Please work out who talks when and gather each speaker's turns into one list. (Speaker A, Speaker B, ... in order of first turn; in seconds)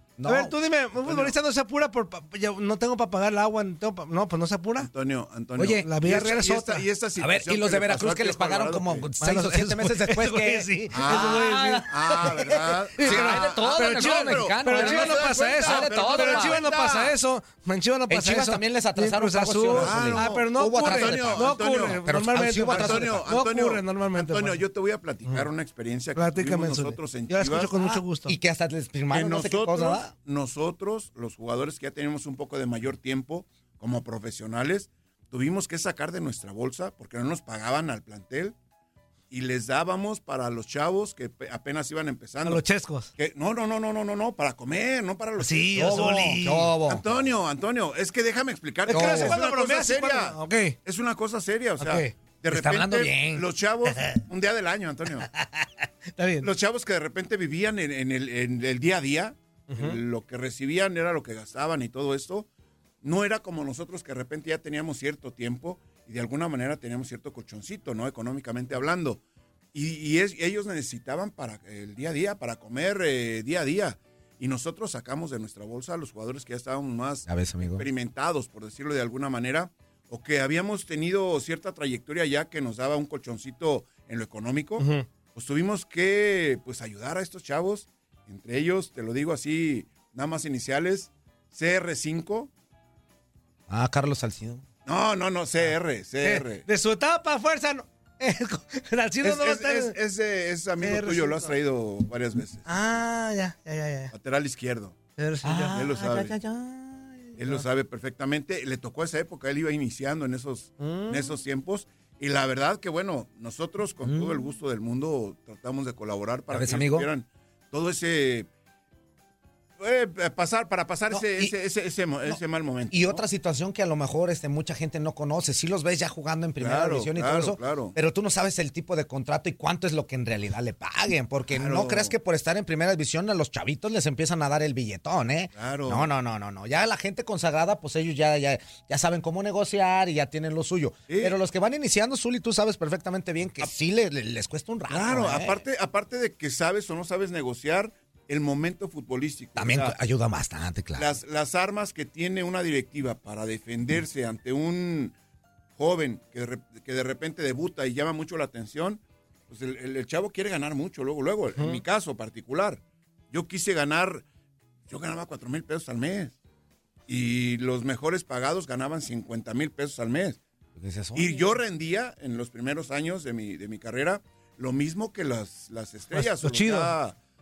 Speaker A: 0.2-0.5, 5.6-5.8, 7.2-16.6, 18.1-23.3, 27.8-30.1, 45.8-47.0, 48.9-49.4, 52.5-53.5, 77.3-77.8, 93.7-94.6, 105.4-107.4, 114.0-114.5, 116.5-117.1, 121.1-121.5, 122.9-145.6, 149.6-151.1, 170.8-171.5
Speaker B: 0.2-4.9, 5.6-6.8, 9.2-11.8, 13.0-24.6, 26.1-28.3, 42.4-43.1, 45.4-46.7, 48.9-50.8, 51.8-52.1, 56.2-56.5, 59.7-60.0, 84.8-85.0, 96.2-100.0, 100.8-101.5, 102.7-104.1, 105.2-105.8, 110.8-111.2, 176.1-176.9
Speaker C: 1.0-1.3, 4.8-9.1, 10.9-17.1, 19.7-22.0, 22.6-27.7, 29.1-38.5, 39.3-42.6, 43.2-46.0, 46.9-55.3, 56.4-62.5, 63.0-69.2, 69.7-92.5, 94.8-96.6, 99.2-102.6, 104.1-105.0, 105.7-106.3, 107.4-118.5, 119.8-123.2, 126.6-127.9, 131.5-132.1, 135.6-136.1, 141.1-141.4, 144.9-149.9, 150.9-155.1, 155.8-164.2, 164.9-166.3, 167.1-170.4, 171.1-177.1